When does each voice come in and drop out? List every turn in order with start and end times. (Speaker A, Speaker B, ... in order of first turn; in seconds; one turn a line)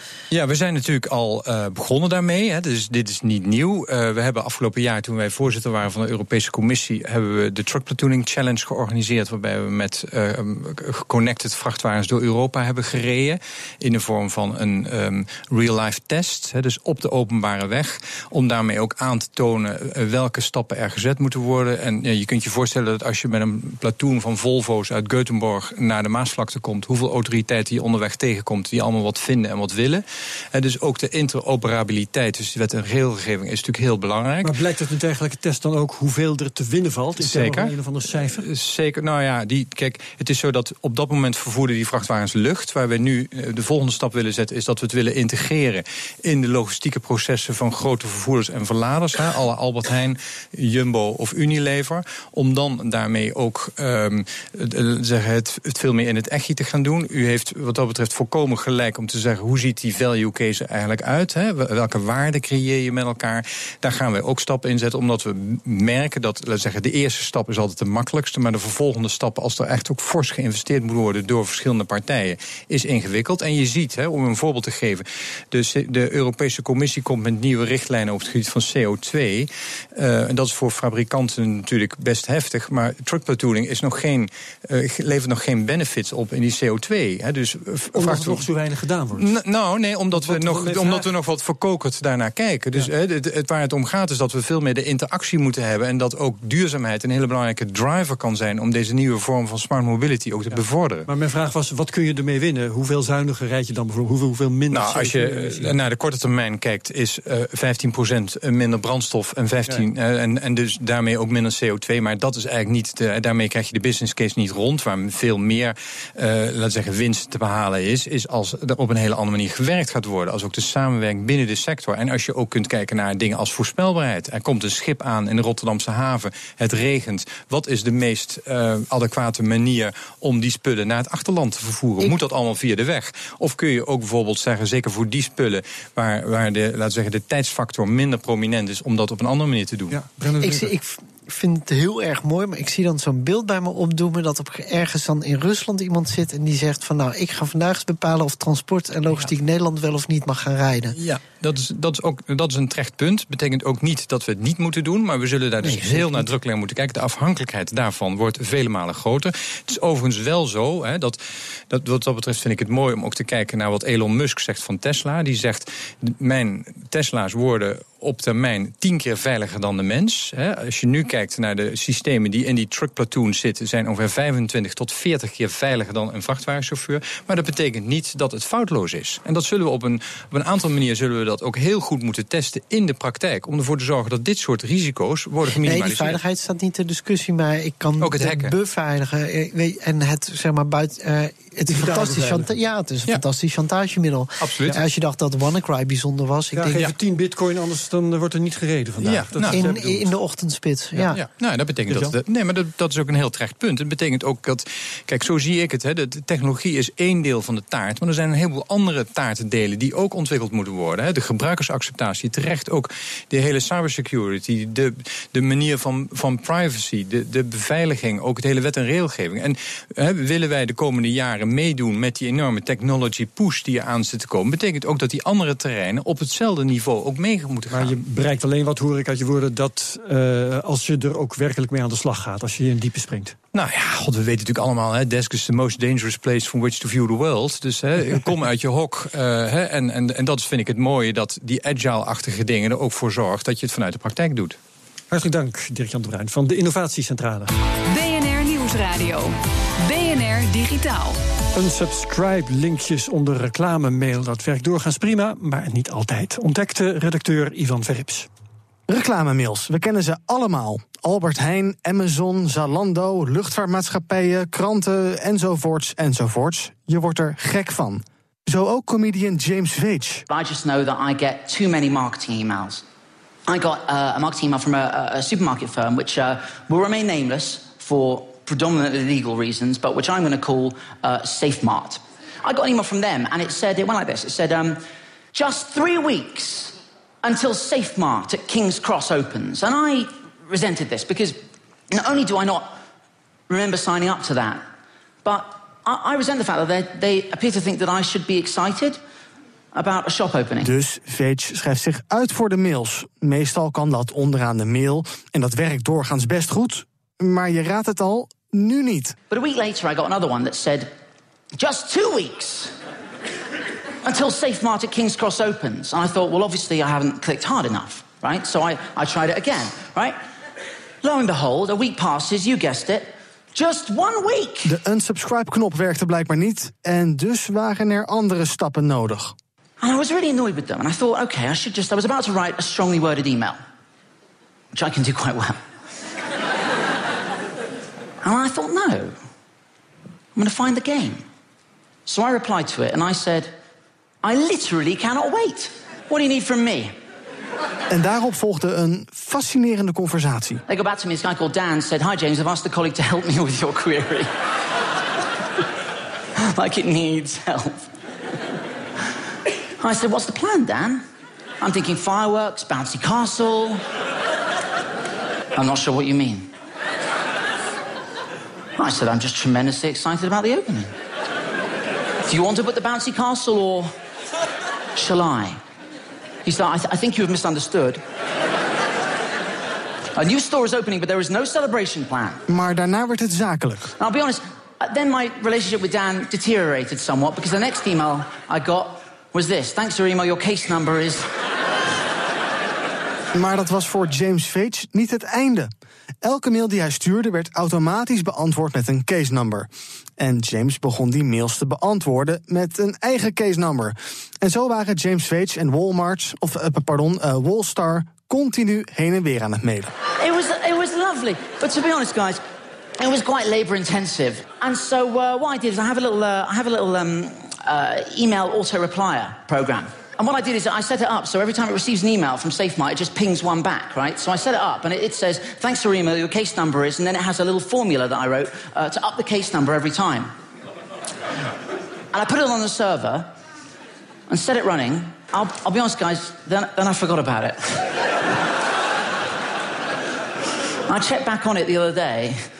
Speaker A: 0.3-34.5
Speaker B: 34.4-38.5
Speaker A: 37.2-88.5
Speaker B: 87.9-89.3
Speaker A: 89.2-101.1
Speaker B: 90.1-91.0
Speaker B: 100.5-105.7
Speaker A: 104.7-140.0
Speaker B: 139.9-140.7
Speaker C: 140.4-151.0
Speaker A: 150.9-186.2
Speaker C: 155.6-156.2
Speaker C: 185.5-196.8
Speaker A: 188.0-188.5
Speaker B: 191.7-192.5
Speaker A: 194.4-194.8
Speaker B: 196.5-200.2
Speaker A: 199.0-199.7
Speaker C: 199.4-201.2
Speaker A: 201.1-228.0
Speaker B: 201.9-202.1
Speaker B: 227.7-233.4
Speaker A: 233.5-244.6
Speaker B: 245.1-247.5
Speaker D: 247.9-251.2
Speaker B: 251.5-258.3
Speaker E: 258.9-270.2
Speaker F: 270.3-272.8
Speaker F: 273.5-284.8
Speaker F: 285.3-292.7
Speaker F: 293.5-294.6
Speaker F: 295.2-299.0
Speaker F: 299.7-300.7
Speaker E: 300.6-309.2
Speaker F: 309.3-310.9
Speaker F: 311.5-312.7
Speaker F: 314.0-320.2
Speaker F: 321.0-324.7
Speaker E: 324.6-329.3
Speaker F: 329.8-333.6
Speaker F: 334.7-335.6
Speaker F: 338.2-339.1
Speaker F: 340.3-341.2
Speaker F: 342.1-343.5
Speaker F: 344.2-346.9
Speaker E: 347.9-350.6
Speaker F: 350.7-354.3
Speaker F: 356.4-357.9
Speaker F: 359.8-361.0
Speaker F: 361.6-363.8
Speaker F: 365.5-366.5
Speaker F: 368.8-370.9
Speaker F: 372.2-373.9
Speaker F: 374.9-375.6
Speaker F: 376.4-378.0
Speaker F: 380.1-382.4
Speaker E: 382.5-383.9
Speaker F: 384.0-391.3
Speaker E: 393.3-395.7
Speaker E: 396.2-409.9
Speaker F: 410.2-412.4
Speaker F: 413.0-430.3
Speaker F: 432.1-433.3
Speaker F: 434.3-437.9
Speaker F: 440.9-442.4